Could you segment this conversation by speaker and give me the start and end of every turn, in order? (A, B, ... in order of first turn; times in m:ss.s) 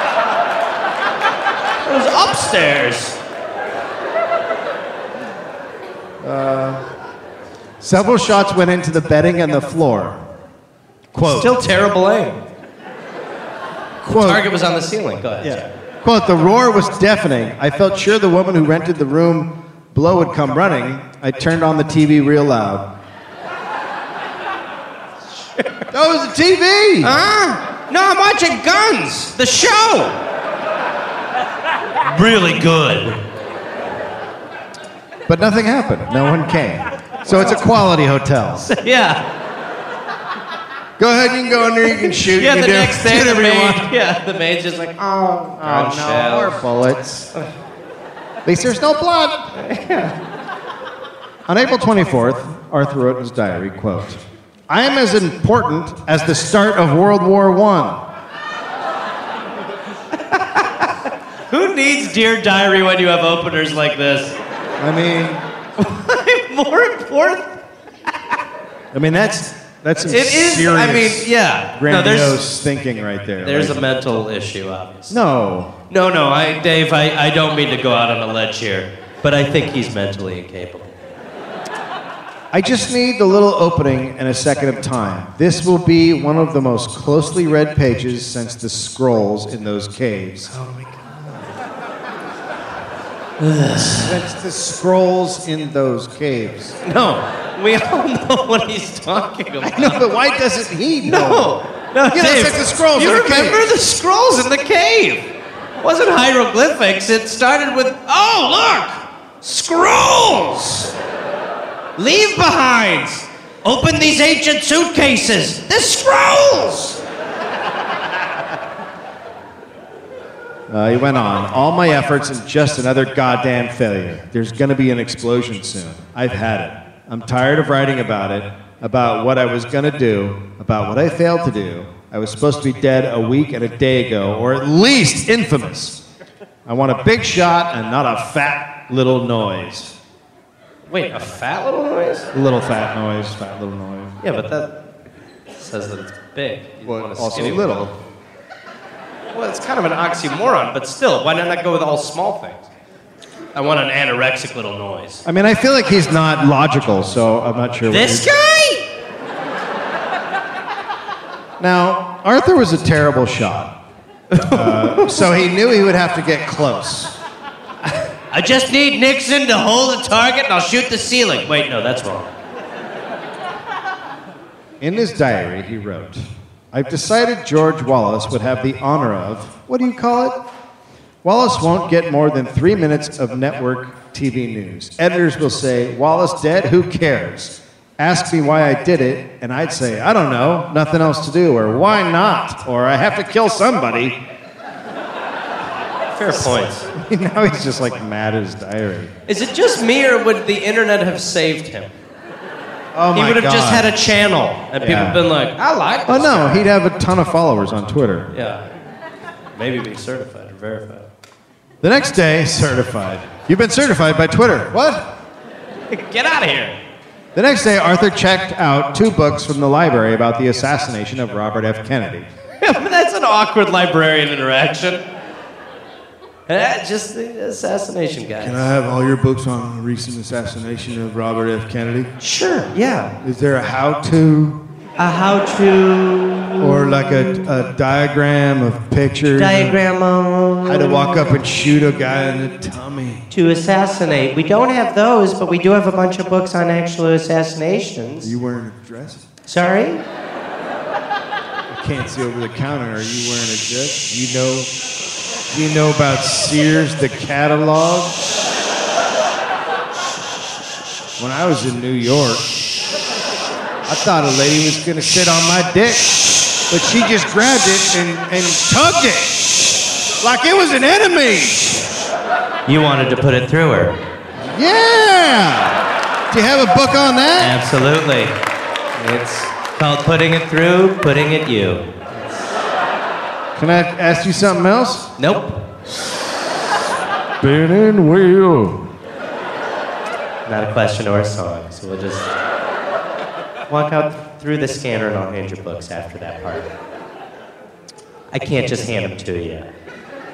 0:01.8-0:03.2 A
0:06.2-0:06.8 B
0:07.8-0:10.2 B
0:11.1-0:11.6 B
0:11.2-0:12.4 A
0:14.0-0:14.4 B
0:14.1-0:15.7 A
0:15.4-0:22.9 B
0:25.6-0:25.8 A
0:25.9-0:27.1 B
0:27.0-0:30.2 A
0:32.0-0:33.2 A
0:35.3-0:38.7 B
0:37.3-0:37.6 A
0:38.6-0:39.2 A
0:41.0-0:43.9 B
0:41.9-0:46.6 A
0:45.6-0:47.3 B
0:48.4-0:49.5 B
0:49.5-0:50.2 A
0:51.5-0:58.0 B
1:00.1-1:04.4 A
1:04.8-1:05.4 B
1:05.8-1:07.6 A
1:08.9-1:13.9 B
1:10.0-1:12.4 A
1:13.4-1:15.2 A
1:15.1-1:15.7 B
1:15.9-1:20.9 A
1:22.5-1:30.5 B
1:30.5-1:31.5 A
1:33.4-1:34.2 A
1:33.8-1:36.8 B
1:36.8-1:40.1 A
1:39.6-1:41.5 B
1:41.0-1:45.2 A
1:42.1-1:43.6 B
1:45.8-1:50.9 A
1:52.0-1:57.0 A
2:00.7-2:16.0 B
2:16.7-2:19.9 B
2:20.9-2:22.3 A
2:22.3-2:24.2 B
2:24.2-2:24.7 A
2:25.5-2:27.8 A
2:26.8-2:27.9 B
2:29.3-2:32.7 A
2:33.6-2:35.2 A
2:35.2-2:38.3 B
2:37.9-2:38.9 A
2:41.6-2:43.7 B
2:44.3-2:45.3 A
2:44.5-2:47.1 B
2:48.3-2:52.3 A
2:54.8-3:00.4 B
3:01.2-3:14.2 B
3:16.2-3:16.9 A
3:16.9-3:19.1 B
3:19.3-3:21.9 A
3:22.9-3:24.0 B
3:23.1-3:26.7 A
3:24.8-3:25.2 B
3:26.1-3:28.3 B
3:28.3-3:28.7 A
3:29.6-3:31.1 A
3:31.8-3:35.1 B
3:35.9-3:36.8 A
3:37.4-3:42.3 B
3:42.6-3:45.0 A
3:46.5-3:48.7 A
3:48.4-3:52.1 B
3:52.2-3:53.1 A
3:53.2-3:54.6 B
3:55.0-3:57.5 A
3:56.6-3:59.8 B
3:59.3-4:01.4 A
4:00.7-4:03.2 B
4:03.3-4:08.3 A
4:08.2-4:09.2 B
4:09.5-4:10.0 A
4:11.7-4:14.7 B
4:15.5-4:18.2 B
4:21.2-4:22.6 B
4:23.9-4:29.6 B
4:30.2-4:31.9 B
4:32.7-4:34.0 A
4:34.4-4:37.6 B
4:37.4-4:38.3 A
4:39.0-4:42.4 A
4:43.6-4:45.1 B
4:45.2-4:45.6 A
4:47.4-4:48.8 B
4:50.5-4:52.3 A
4:53.7-4:56.7 A
4:58.3-4:59.7 A